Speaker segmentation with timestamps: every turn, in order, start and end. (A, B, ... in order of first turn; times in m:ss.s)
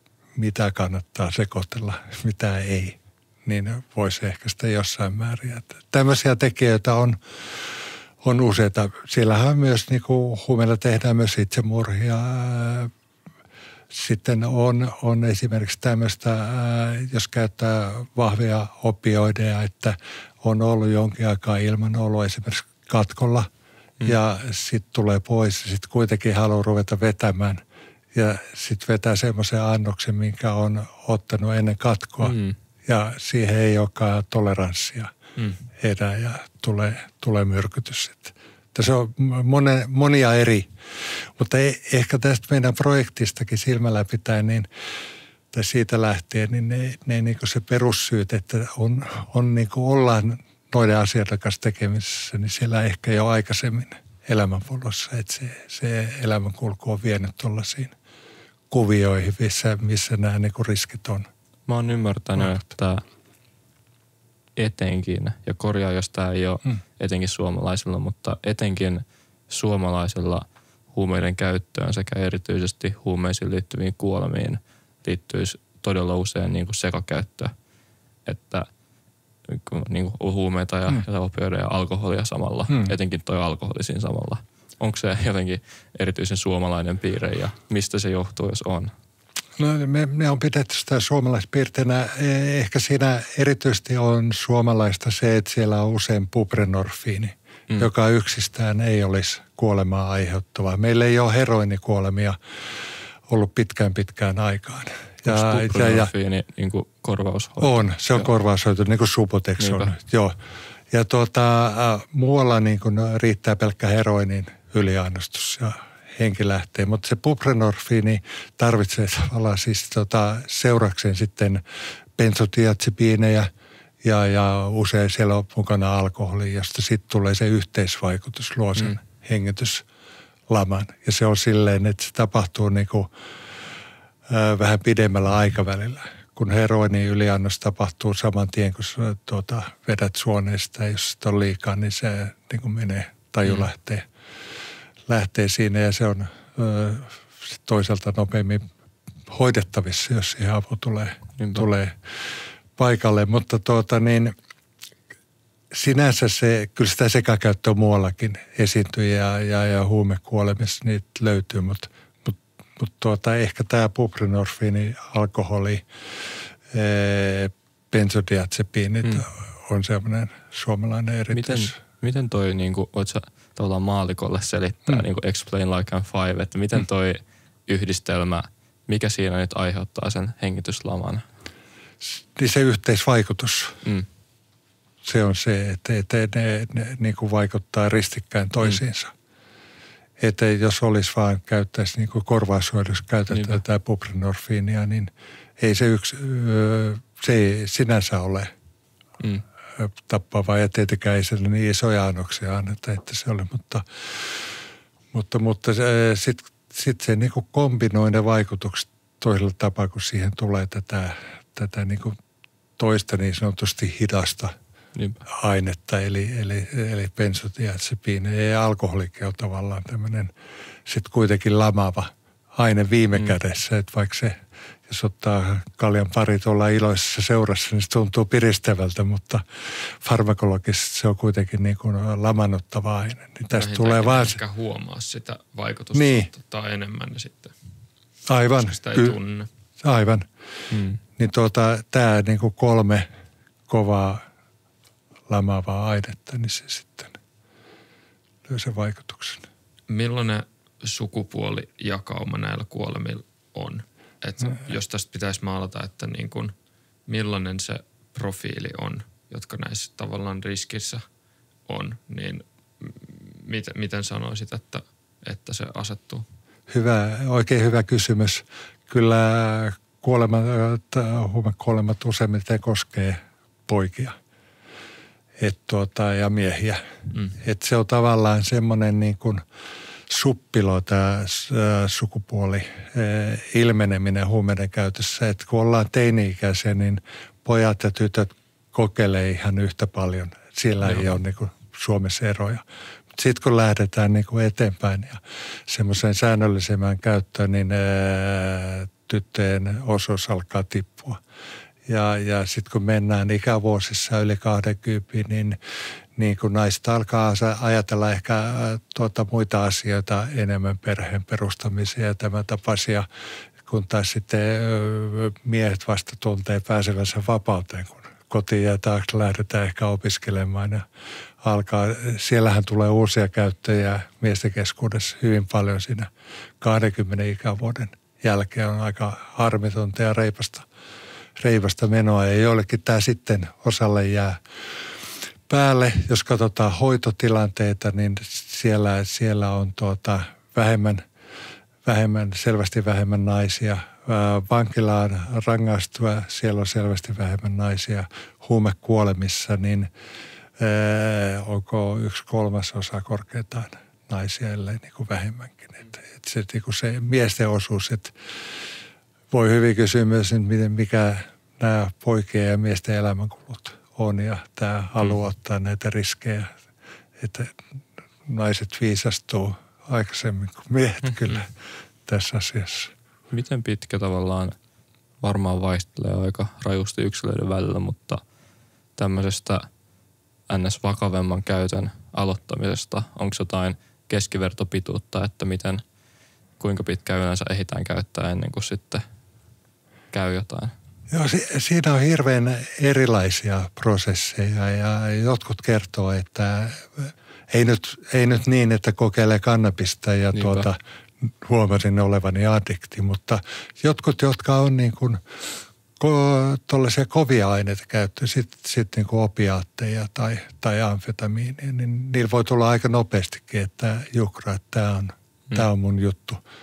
0:00.4-0:12.9 A
0:13.9-0:23.5 A
0:24.0-0:27.6 A
0:28.1-0:35.1 A
0:32.2-0:32.6 B
0:35.8-0:44.7 A
0:45.5-0:57.9 A
0:58.7-1:01.3 A
1:01.7-1:03.0 B
1:04.6-1:17.5 B
1:18.2-1:18.7 B
1:19.5-1:28.9 B
1:22.7-1:22.9 A
1:29.6-1:42.4 A
1:43.3-1:46.1 A
1:45.2-1:48.3 B
1:47.6-1:50.3 A
1:49.6-1:49.9 B
1:50.9-2:01.6 A
2:02.2-2:03.5 A
2:04.0-2:09.8 A
2:10.5-2:13.1 A
2:14.3-2:24.1 A
2:25.1-2:28.6 A
2:29.3-2:32.0 A
2:31.4-2:31.7 B
2:32.8-2:34.3 A
2:35.7-2:45.8 A
2:46.7-2:51.8 A
2:51.3-3:01.2 B
3:02.0-3:03.8 A
3:05.0-3:09.1 A
3:10.2-3:18.5 A
3:13.3-3:13.6 B
3:19.8-3:24.5 A
3:25.1-3:32.2 A
3:32.8-3:34.5 A
3:35.0-3:35.2 B
3:35.3-3:40.3 A
3:40.8-3:54.4 A
3:53.5-3:57.5 C
3:55.9-3:56.3 A
3:58.3-3:59.2 A
3:58.6-3:59.5 C
3:59.8-4:00.3 A
4:00.7-4:01.0 B
4:01.2-4:03.0 A
4:03.7-4:04.2 A
4:05.3-4:07.1 A
4:08.4-4:09.5 A
4:09.9-4:16.5 C
4:17.0-4:21.0 C
4:21.7-4:26.2 C
4:26.7-4:34.2 A
4:35.4-4:36.8 A
4:37.4-4:39.4 A
4:40.1-4:52.6 A
4:50.9-4:51.1 B
4:53.1-5:01.2 A
5:01.8-5:05.6 A
5:06.2-5:13.0 A
5:13.6-5:20.8 A
5:21.4-5:26.1 A
5:26.6-5:30.7 A
5:31.4-5:34.4 A
5:35.5-5:41.0 A
5:41.8-5:49.9 A
5:50.6-5:58.1 A
5:59.3-6:06.5 A
6:07.2-6:07.6 A
6:08.2-6:11.5 A
6:12.1-6:12.9 A
6:13.3-6:14.6 B
6:15.2-6:18.2 B
6:19.0-6:19.6 B
6:20.5-6:25.8 B
6:26.6-6:29.0 B
6:30.1-6:30.7 B
6:31.1-6:45.2 A
6:40.3-6:40.7 B
6:46.0-6:56.4 A